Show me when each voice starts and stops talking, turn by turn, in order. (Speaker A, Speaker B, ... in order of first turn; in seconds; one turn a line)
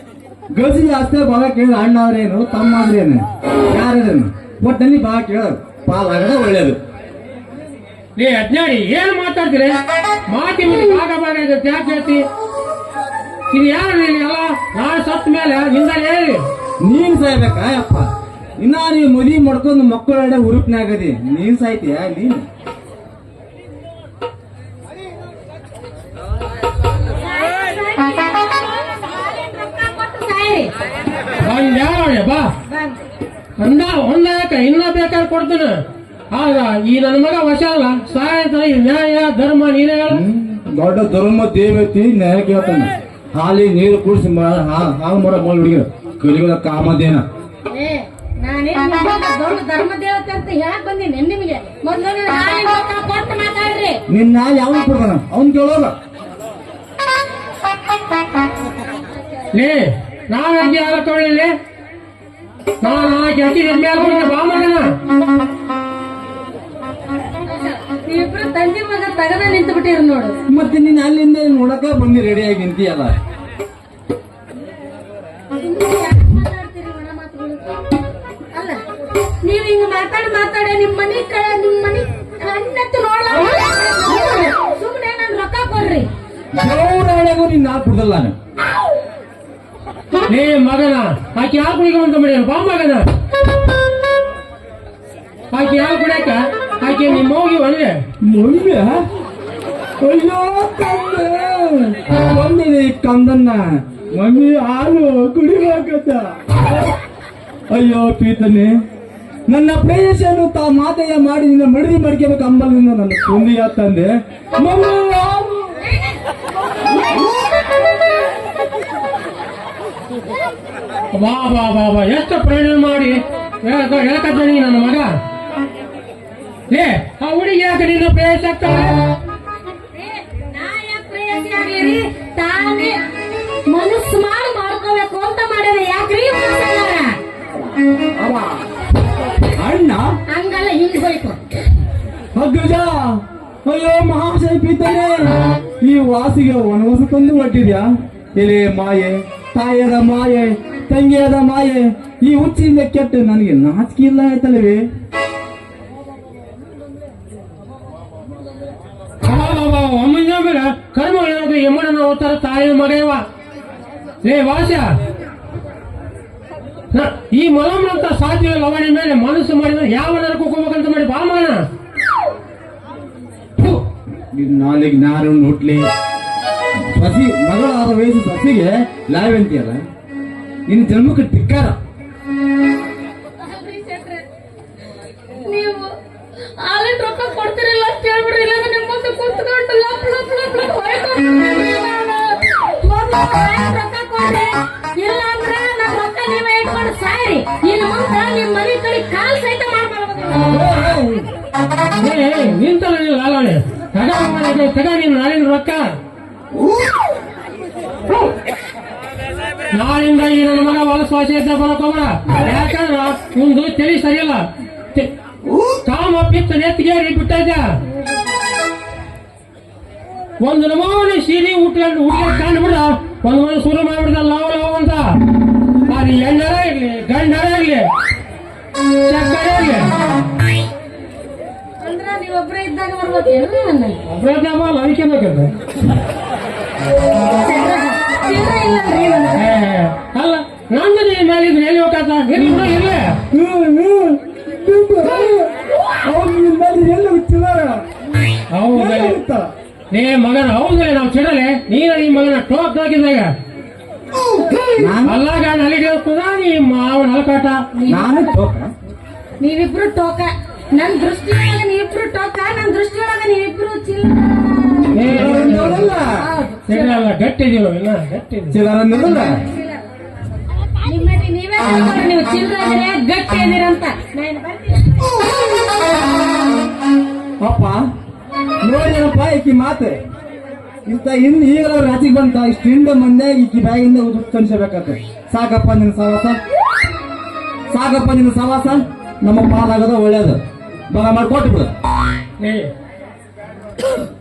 Speaker A: 0.5-6.8
Speaker B: 8.2-9.8
Speaker B: 10.3-12.2
Speaker B: 13.5-16.4
Speaker A: 16.8-18.1
Speaker A: 18.6-22.4
Speaker C: 27.2-30.7
Speaker B: 31.4-32.5
Speaker C: 32.7-33.0
Speaker B: 33.6-40.2
Speaker A: 40.1-47.2
Speaker C: 47.7-54.0
Speaker A: 54.1-55.9
Speaker B: 59.5-61.5
Speaker B: 62.8-64.9
Speaker C: 67.5-70.4
Speaker A: 70.5-73.1
Speaker C: 75.6-77.8
Speaker C: 78.5-78.8
Speaker C: 79.4-86.1
Speaker A: 86.5-88.3
Speaker B: 90.3-93.1
Speaker B: 95.5-98.0
Speaker A: 98.2-99.0
Speaker A: 100.0-106.7
Speaker A: 107.7-108.7
Speaker A: 109.5-115.9
Speaker B: 121.1-125.2
Speaker B: 126.7-129.1
Speaker C: 129.9-133.0
Speaker C: 133.7-137.2
Speaker A: 138.2-138.6
Speaker A: 139.5-140.1
Speaker C: 140.3-141.4
Speaker A: 142.3-154.8
Speaker B: 159.2-163.2
Speaker B: 164.2-164.9
Speaker B: 166.9-171.6
Speaker A: 173.6-175.9
Speaker A: 176.9-179.8
Speaker A: 180.7-181.8
Speaker C: 183.4-184.2
Speaker C: 185.4-185.9
Speaker C: 186.6-200.7
Speaker A: 200.5-201.3
Speaker B: 202.0-206.0
Speaker B: 209.7-215.1
Speaker B: 215.8-217.8
Speaker B: 220.4-225.2
Speaker B: 225.8-227.9
Speaker B: 229.0-229.9
Speaker C: 231.8-234.0
Speaker B: 234.1-235.5
Speaker C: 237.4-239.5
Speaker B: 239.3-243.1
Speaker A: 243.3-245.5
Speaker A: 246.0-247.8
Speaker B: 248.5-249.2
Speaker A: 248.7-249.5
Speaker B: 249.9-253.3
Speaker A: 254.8-255.2
Speaker B: 255.0-257.6
Speaker C: 257.7-258.3
Speaker A: 257.9-258.7
Speaker C: 259.4-265.1
Speaker B: 264.9-265.8
Speaker A: 265.0-266.2
Speaker C: 265.9-267.0
Speaker B: 266.7-268.6
Speaker A: 268.5-269.3
Speaker C: 269.2-269.8
Speaker C: 270.8-275.2
Speaker A: 277.4-277.8
Speaker A: 278.6-280.0
Speaker A: 280.9-286.4
Speaker A: 287.7-290.4
Speaker A: 290.9-291.7
Speaker B: 292.4-292.7